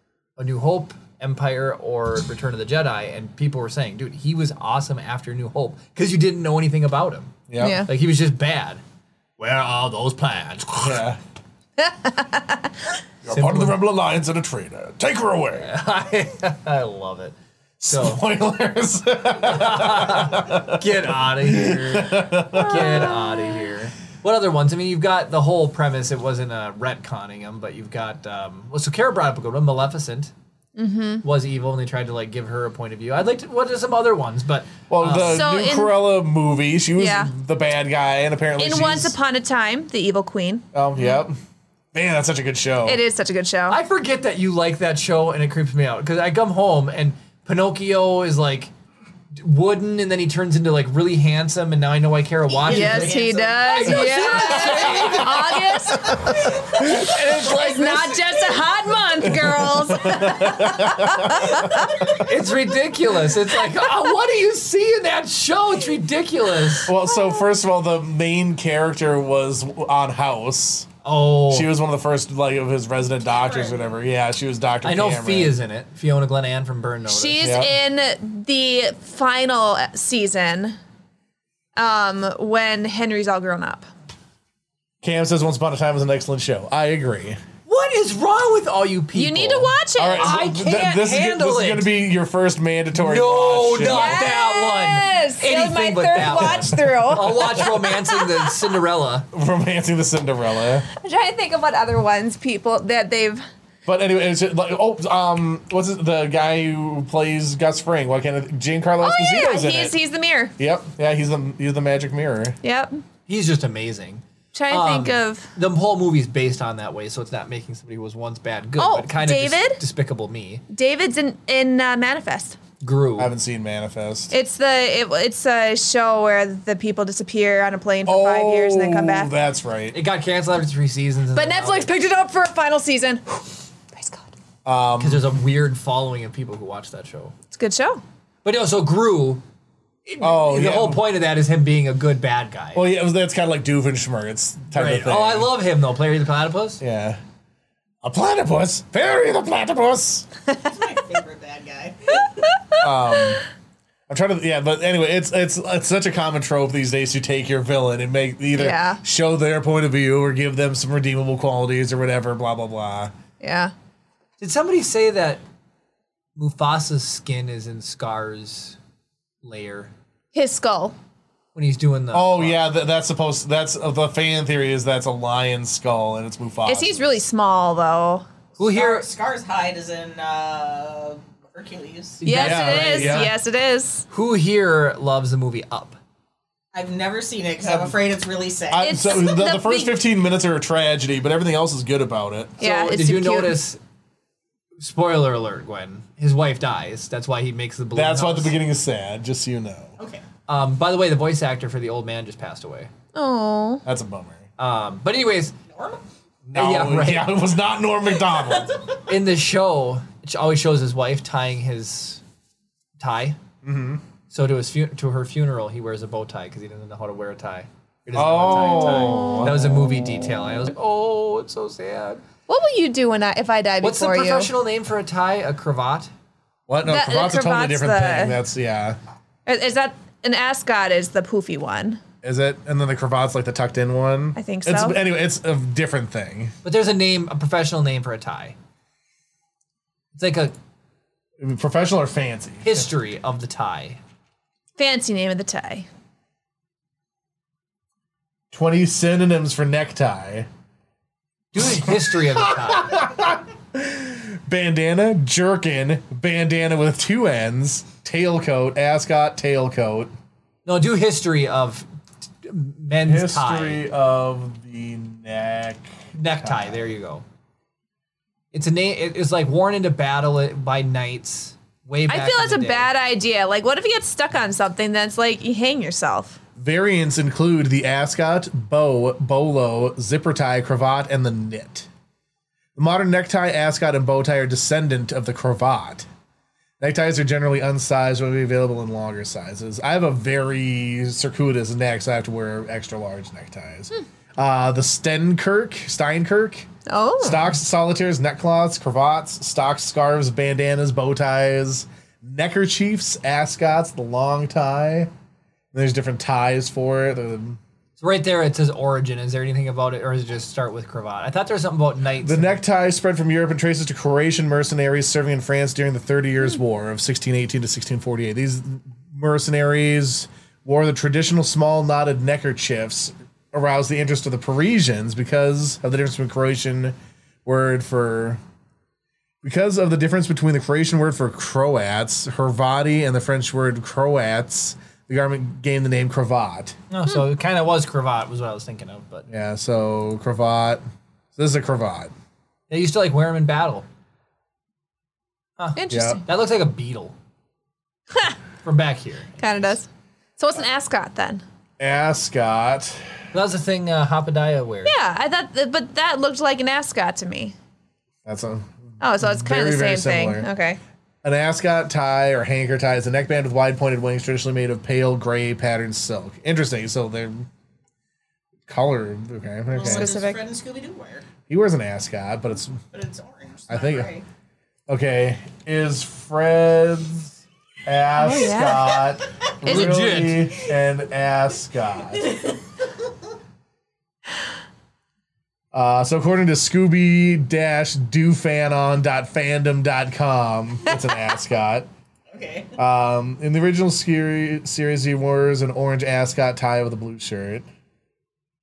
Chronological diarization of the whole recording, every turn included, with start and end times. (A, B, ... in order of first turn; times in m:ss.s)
0:00.4-0:08.8 A
0:07.5-0:07.8 B
0:07.6-0:07.9 C
0:09.4-0:11.0 A
0:10.8-0:11.2 B
0:11.8-0:12.7 C
0:13.2-0:15.7 B
0:13.3-0:13.8 A
0:15.6-0:17.4 A
0:17.8-0:23.1 B
0:17.9-0:18.2 A
0:19.4-0:30.3 A
0:22.6-0:23.6 C
0:30.8-0:31.2 C
0:31.2-0:35.5 A
0:34.9-0:39.2 B
0:35.1-0:36.0 C
0:37.0-0:37.3 C
0:38.6-0:40.6 C
0:40.7-0:41.4 B
0:41.9-0:43.0 B
0:42.8-0:43.8 C
0:43.7-0:48.7 A
0:49.4-0:55.6 A
0:52.5-0:55.1 D
0:52.7-1:02.0 C
0:54.6-0:57.5 B
0:56.5-0:58.5 A
0:59.2-1:02.3 B
1:02.1-1:06.9 A
1:06.9-1:10.9 B
1:11.0-1:11.7 A
1:11.5-1:15.6 B
1:13.2-1:13.9 D
1:14.8-1:17.6 A
1:17.1-1:20.8 C
1:17.4-1:17.7 B
1:21.8-1:23.9 C
1:25.0-1:27.4 B
1:27.7-1:31.9 A
1:29.2-1:30.4 C
1:30.0-1:34.3 B
1:32.9-1:39.3 A
1:33.8-1:38.5 C
1:36.2-1:37.6 B
1:39.3-1:40.9 B
1:41.0-1:43.4 C
1:43.9-1:49.9 B
1:49.0-1:50.5 C
1:50.6-1:52.6 B
1:52.6-1:53.0 C
1:53.3-2:00.6 A
1:54.5-1:55.5 C
1:58.8-1:59.8 C
2:00.7-2:02.6 C
2:02.8-2:03.3 A
2:03.2-2:04.3 B
2:04.3-2:09.3 C
2:08.1-2:10.0 B
2:09.9-2:11.9 A
2:11.4-2:14.3 C
2:14.6-2:15.3 B
2:15.0-2:17.3 A
2:17.5-2:18.0 C
2:18.4-2:19.4 A
2:20.1-2:22.8 A
2:20.2-2:21.0 B
2:22.8-2:25.5 B
2:24.7-2:26.8 A
2:26.8-2:27.2 B
2:28.0-2:30.3 B
2:30.7-2:32.4 D
2:32.8-2:33.4 B
2:34.1-2:43.1 B
2:38.6-2:39.0 C
2:43.4-2:43.7 C
2:44.4-2:45.4 A
2:46.4-2:48.8 A
2:49.4-2:49.9 A
2:50.3-2:51.0 C
2:51.6-2:52.6 A
2:52.1-2:57.1 B
2:56.6-2:58.3 C
2:58.6-2:59.1 A
2:58.6-3:02.2 D
3:02.2-3:03.3 A
3:02.2-3:04.1 C
3:02.4-3:03.3 B
3:04.1-3:06.0 A
3:06.7-3:09.3 D
3:07.6-3:08.0 B
3:08.7-3:12.6 B
3:08.8-3:10.0 C
3:12.6-3:13.6 C
3:12.6-3:13.8 A
3:14.8-3:18.6 A
3:17.9-3:20.0 B
3:20.5-3:22.9 A
3:23.2-3:23.8 C
3:23.8-3:24.4 B
3:24.6-3:25.6 A
3:25.7-3:26.0 D
3:26.5-3:28.7 B
3:26.5-3:27.4 A
3:28.3-3:28.9 D
3:29.1-3:32.2 A
3:33.0-3:33.4 A
3:33.6-3:34.0 B
3:34.3-3:42.2 A
3:38.1-3:39.8 B
3:38.9-3:39.5 C
3:42.5-3:44.5 C
3:43.8-3:46.1 A
3:46.7-3:49.0 B
3:46.9-3:48.4 C
3:49.5-3:52.0 C
3:52.2-3:56.5 B
3:54.4-3:55.0 C
3:56.6-3:58.6 A
4:00.2-4:00.6 A
4:01.4-4:02.9 B
4:02.6-4:04.0 A
4:04.8-4:05.9 C
4:08.5-4:10.5 B
4:11.5-4:13.0 A
4:11.8-4:20.1 B
4:20.7-4:21.9 A
4:22.4-4:23.8 A
4:23.0-4:26.8 B
4:26.1-4:27.2 A
4:28.5-4:32.9 A
4:32.1-4:36.4 C
4:36.6-4:41.9 B
4:42.8-4:46.1 B
4:46.8-4:56.7 B
4:56.9-4:57.5 C
4:57.2-5:05.1 B
5:05.7-5:07.6 B
5:08.0-5:12.6 A
5:12.2-5:28.4 B
5:29.4-5:36.8 B
5:36.9-5:39.3 A
5:39.3-5:40.8 B
5:41.4-5:42.1 B
5:42.7-5:43.9 A
5:45.6-5:47.2 A
5:45.8-5:46.2 C
5:45.9-5:46.2 B
5:48.6-5:49.8 A
5:49.4-5:49.9 C
5:50.4-5:51.4 C
5:51.8-5:53.1 B
5:53.3-5:55.0 A
5:54.8-5:57.6 C
5:58.2-6:00.5 B
5:59.0-6:00.8 C
6:01.2-6:07.5 B
6:08.7-6:10.1 B
6:09.7-6:11.3 D
6:09.8-6:10.4 C
6:11.5-6:12.8 B
6:12.9-6:14.2 D
6:13.7-6:14.1 B
6:14.9-6:22.4 B
6:18.2-6:19.0 C
6:19.6-6:20.0 C
6:19.6-6:20.6 A
6:22.2-6:22.6 D
6:25.7-6:31.9 B
6:32.3-6:32.8 D
6:32.8-6:37.7 B